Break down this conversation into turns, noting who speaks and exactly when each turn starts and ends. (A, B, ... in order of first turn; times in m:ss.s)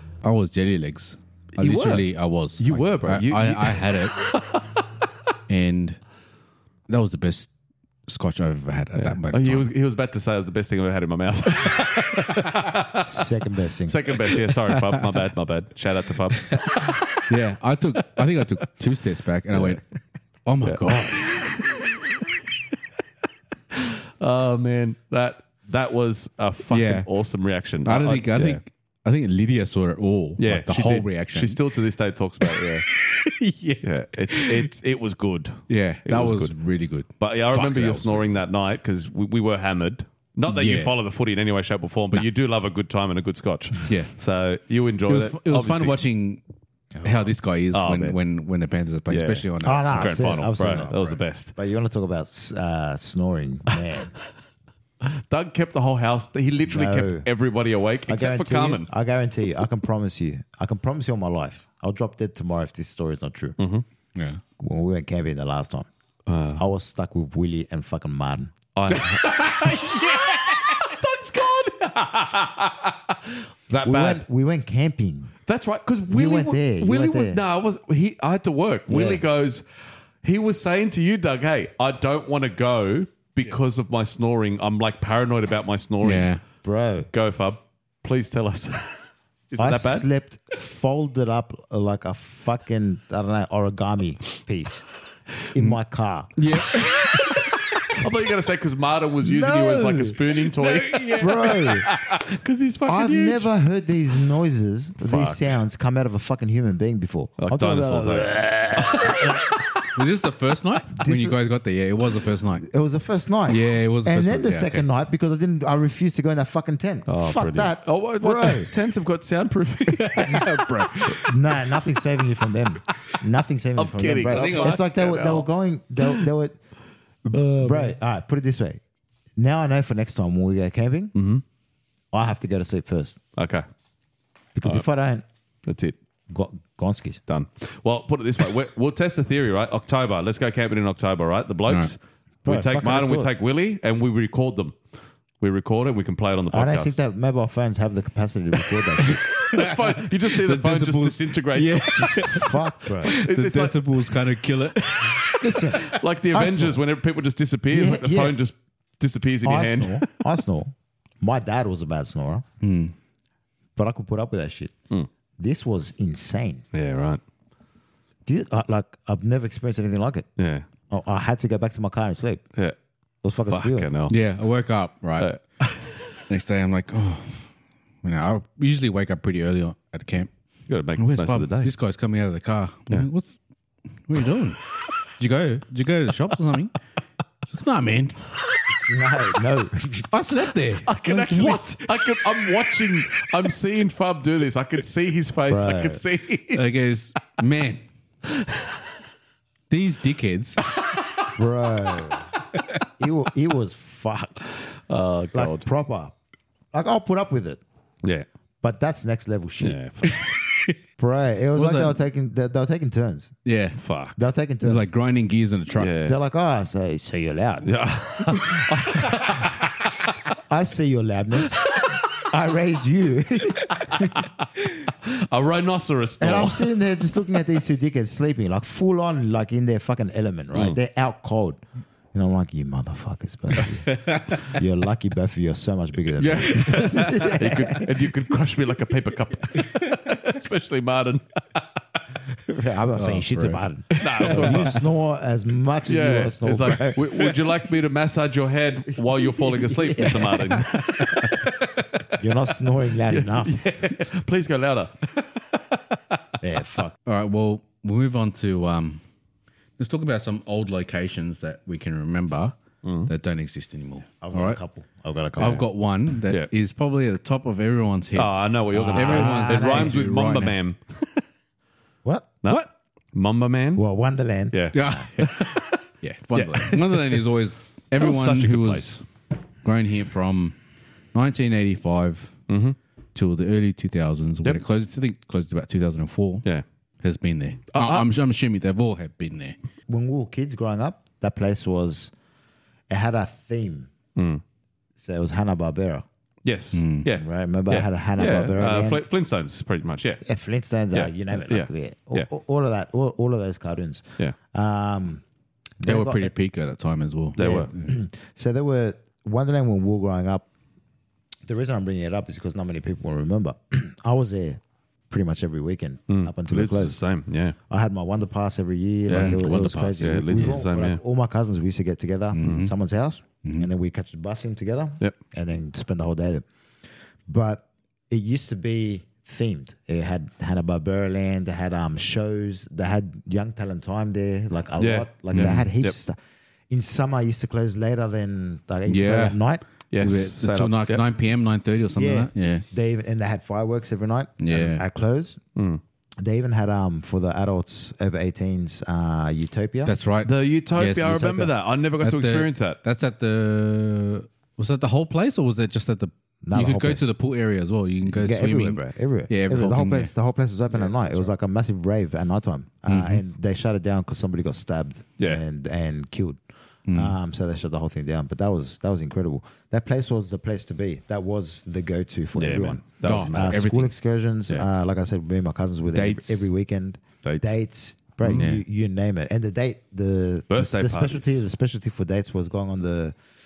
0:00.2-0:04.2 A
0:01.6-0:02.1 B
0:02.6-0:04.6 B
0:05.5-0:06.0 A
0:06.9-0:07.5 A
0:08.1-0:09.7 A
0:09.0-0:13.2 B
0:13.0-0:14.0 C
0:13.9-0:17.2 B
0:14.7-0:15.2 A
0:17.3-0:19.8 A
0:20.5-0:21.6 A
0:20.6-0:21.5 B
0:23.8-0:28.6 B
0:26.7-0:27.1 A
0:27.8-0:31.6 A
0:30.4-0:32.9 B
0:32.4-0:34.7 A
0:33.8-0:36.5 B
0:35.7-0:38.4 A
0:37.2-0:46.0 B
0:40.5-0:40.9 A
0:45.1-0:46.4 A
0:47.0-0:50.0 A
0:47.7-0:48.2 B
0:49.1-0:51.5 B
0:49.6-0:54.1 C
0:55.0-0:58.9 B
0:56.7-0:57.3 C
0:58.1-1:03.6 C
1:03.6-1:03.8 B
1:04.2-1:04.4 A
1:04.6-1:05.9 C
1:06.3-1:06.6 B
1:06.5-1:08.5 C
1:08.8-1:14.2 B
1:08.9-1:10.8 A
1:13.8-1:15.3 C
1:15.5-1:19.6 B
1:16.1-1:17.4 C
1:18.9-1:19.2 C
1:20.2-1:26.3 B
1:26.0-1:26.4 A
1:26.6-1:27.1 C
1:27.1-1:30.1 B
1:29.6-1:34.9 C
1:35.5-1:36.3 C
1:36.4-1:37.4 A
1:37.0-1:37.3 B
1:37.9-1:43.5 B
1:39.2-1:40.2 C
1:40.6-1:41.7 A
1:41.2-1:41.9 C
1:42.8-1:49.6 C
1:45.0-1:45.5 B
1:47.4-1:49.8 B
1:50.0-1:52.6 A
1:50.9-1:51.4 C
1:52.6-1:58.7 C
1:53.5-1:54.8 A
1:57.1-2:00.4 B
1:59.9-2:01.3 A
2:01.1-2:06.6 C
2:03.8-2:04.8 B
2:04.3-2:05.5 A
2:07.2-2:08.8 C
2:07.3-2:07.9 B
2:09.4-2:11.2 C
2:11.2-2:11.4 B
2:12.1-2:13.2 C
2:13.4-2:13.6 B
2:14.6-2:15.3 C
2:15.7-2:16.0 B
2:16.3-2:17.2 C
2:17.3-2:24.8 B
2:22.5-2:23.3 C
2:25.4-2:27.0 B
2:26.5-2:29.2 C
2:29.2-2:36.0 A
2:29.4-2:32.5 B
2:32.2-2:33.2 C
2:33.0-2:34.2 B
2:35.0-2:35.3 B
2:35.4-2:36.8 C
2:35.9-2:40.1 B
2:37.7-2:38.4 C
2:39.4-2:42.4 C
2:42.6-2:42.9 A
2:43.8-2:44.7 C
2:45.4-2:46.6 C
2:46.7-2:47.2 B
2:48.3-2:50.3 C
2:50.4-2:50.7 B
2:50.9-2:52.4 C
2:53.2-2:53.9 C
2:53.5-2:54.2 B
2:54.1-2:55.3 A
2:55.2-2:55.9 B
2:56.3-2:57.5 A
2:58.0-3:00.3 A
3:00.7-3:01.8 B
3:01.0-3:03.4 A
3:04.1-3:04.6 A
3:05.2-3:06.7 A
3:07.5-3:08.2 A
3:08.8-3:10.1 C
3:10.1-3:11.8 A
3:10.9-3:16.6 B
3:15.5-3:16.0 C
3:16.5-3:17.8 A
3:18.4-3:18.8 B
3:19.7-3:20.6 A
3:21.4-3:22.3 C
3:23.0-3:24.4 C
3:24.9-3:25.7 B
3:25.3-3:26.2 C
3:26.7-3:27.6 C
3:28.6-3:29.8 C
3:29.6-3:30.3 B
3:30.5-3:30.8 A
3:31.0-3:33.3 C
3:31.6-3:32.0 A
3:33.4-3:33.8 A
3:33.8-3:34.2 B
3:34.2-3:34.9 C
3:34.6-3:35.9 A
3:35.8-3:36.2 B
3:36.0-3:38.6 C
3:37.6-3:40.0 B
3:40.5-3:41.7 C
3:41.7-3:42.0 B
3:42.2-3:44.1 C
3:43.8-3:44.5 B
3:45.0-3:46.7 B
3:46.2-3:51.6 C
3:52.1-3:57.9 C
3:53.9-3:54.6 A
3:56.2-4:01.6 B
4:02.4-4:07.3 C
4:03.0-4:04.7 A
4:04.0-4:04.8 B
4:05.9-4:12.3 B
4:09.0-4:10.7 C
4:12.2-4:13.8 C
4:13.1-4:16.2 B
4:16.4-4:17.0 C
4:17.1-4:19.0 A
4:19.8-4:22.6 A
4:22.8-4:23.1 B
4:23.1-4:24.6 A
4:24.2-4:25.6 C
4:25.4-4:30.6 A
4:28.2-4:31.2 B
4:28.7-4:30.0 C
4:32.0-4:32.3 C
4:32.4-4:33.8 B
4:33.8-4:35.0 C
4:34.5-4:35.8 B
4:34.7-4:39.0 A
4:36.4-4:37.2 B
4:38.0-4:39.0 B
4:39.6-4:40.6 A
4:41.1-4:42.4 A
4:42.5-4:42.8 B
4:43.2-4:46.5 A
4:47.0-4:49.6 A
4:47.7-4:48.1 B
4:49.9-4:52.1 C
4:52.9-4:53.9 C
4:54.2-4:54.4 B
4:55.0-4:56.0 C
4:56.4-5:00.2 B
4:56.7-4:57.1 A
4:57.2-4:59.0 C
5:00.2-5:05.2 C
5:00.9-5:02.3 B
5:05.8-5:06.3 C
5:05.8-5:08.0 A
5:07.4-5:07.7 B
5:07.4-5:10.5 C
5:11.5-5:17.0 C
5:16.1-5:17.6 B
5:17.7-5:26.5 C
5:19.1-5:21.0 B
5:19.1-5:20.6 A
5:22.3-5:22.7 A
5:23.4-5:23.7 A
5:27.3-5:36.2 C
5:34.8-5:35.9 B
5:35.3-5:35.7 A
5:36.7-5:39.6 C
5:38.9-5:39.4 A
5:39.9-5:41.0 B
5:40.0-5:42.6 A
5:42.0-5:45.4 C
5:44.4-5:44.8 A
5:45.6-5:45.8 B
5:46.2-5:49.9 C
5:49.8-6:00.1 A
5:50.2-5:52.8 B
5:51.0-5:51.5 C
5:56.4-5:57.1 C
5:58.1-6:06.4 C
6:02.9-6:03.2 A
6:06.9-6:07.2 A
6:06.9-6:23.2 C
6:12.4-6:13.6 B
6:13.0-6:13.9 A
6:15.9-6:16.5 A
6:17.2-6:17.5 B
6:18.2-6:18.5 B
6:18.3-6:18.6 A
6:20.5-6:21.4 B